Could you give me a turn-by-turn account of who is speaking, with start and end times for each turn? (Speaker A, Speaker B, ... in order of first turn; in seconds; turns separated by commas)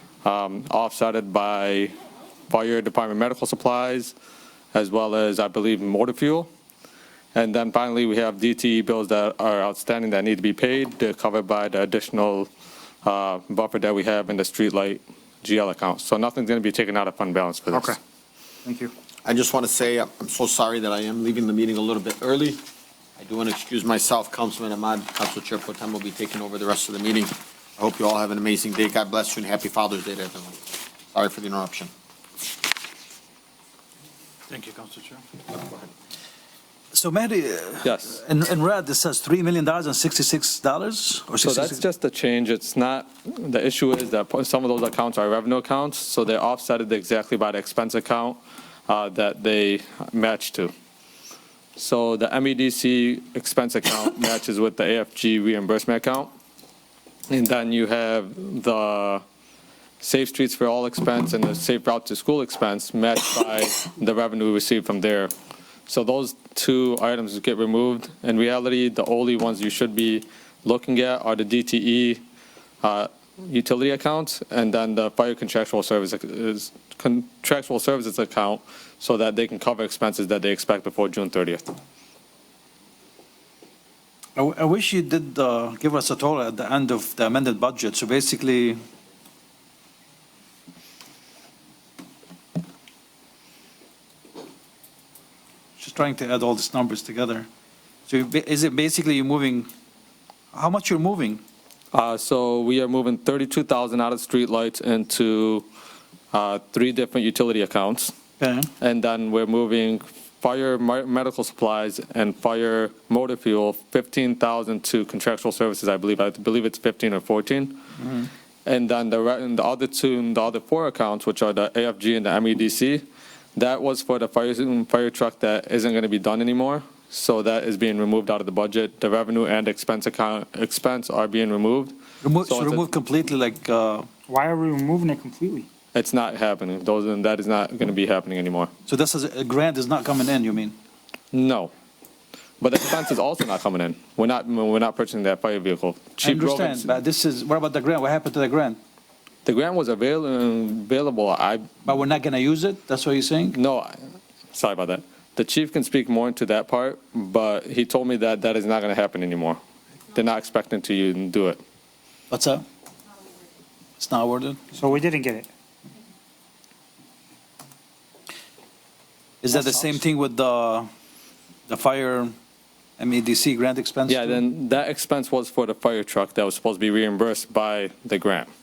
Speaker A: 0.2-1.9, Speaker A: 2.5-4.1, Speaker A: 4.7-6.5, Speaker A: 7.3-12.5, Speaker A: 13.0-18.0, Speaker B: 17.7-18.0, Speaker B: 18.6-18.9, Speaker C: 19.3-22.6, Speaker C: 23.2-31.9, Speaker D: 34.5-35.2, Speaker D: 36.9-41.8, Speaker A: 37.8-38.2, Speaker A: 41.4-50.7, Speaker A: 51.8-56.3, Speaker A: 57.3-59.2, Speaker A: 60.0-65.3, Speaker A: 65.9-72.2, Speaker A: 72.8-81.7, Speaker D: 84.4-88.8, Speaker D: 95.8-97.5, Speaker D: 98.1-99.7, Speaker D: 100.5-101.4, Speaker A: 101.9-105.7, Speaker A: 106.3-108.1, Speaker D: 108.4-108.7, Speaker A: 108.8-117.8, Speaker D: 118.0-118.3, Speaker A: 118.7-123.0, Speaker A: 123.6-132.9, Speaker D: 132.2-134.1, Speaker B: 134.3-135.7, Speaker A: 135.9-138.7, Speaker D: 138.9-140.8, Speaker A: 141.3-141.7, Speaker A: 142.6-147.0, Speaker D: 146.2-148.8, Speaker A: 149.4-151.7, Speaker D: 151.8-153.6, Speaker A: 153.5-154.0, Speaker A: 154.5-159.6, Speaker A: 160.1-161.6, Speaker D: 162.3-162.6, Speaker D: 164.0-164.7, Speaker B: 164.7-165.5, Speaker D: 169.4-170.9, Speaker D: 171.7-172.3, Speaker D: 173.0-174.4, Speaker A: 174.1-178.5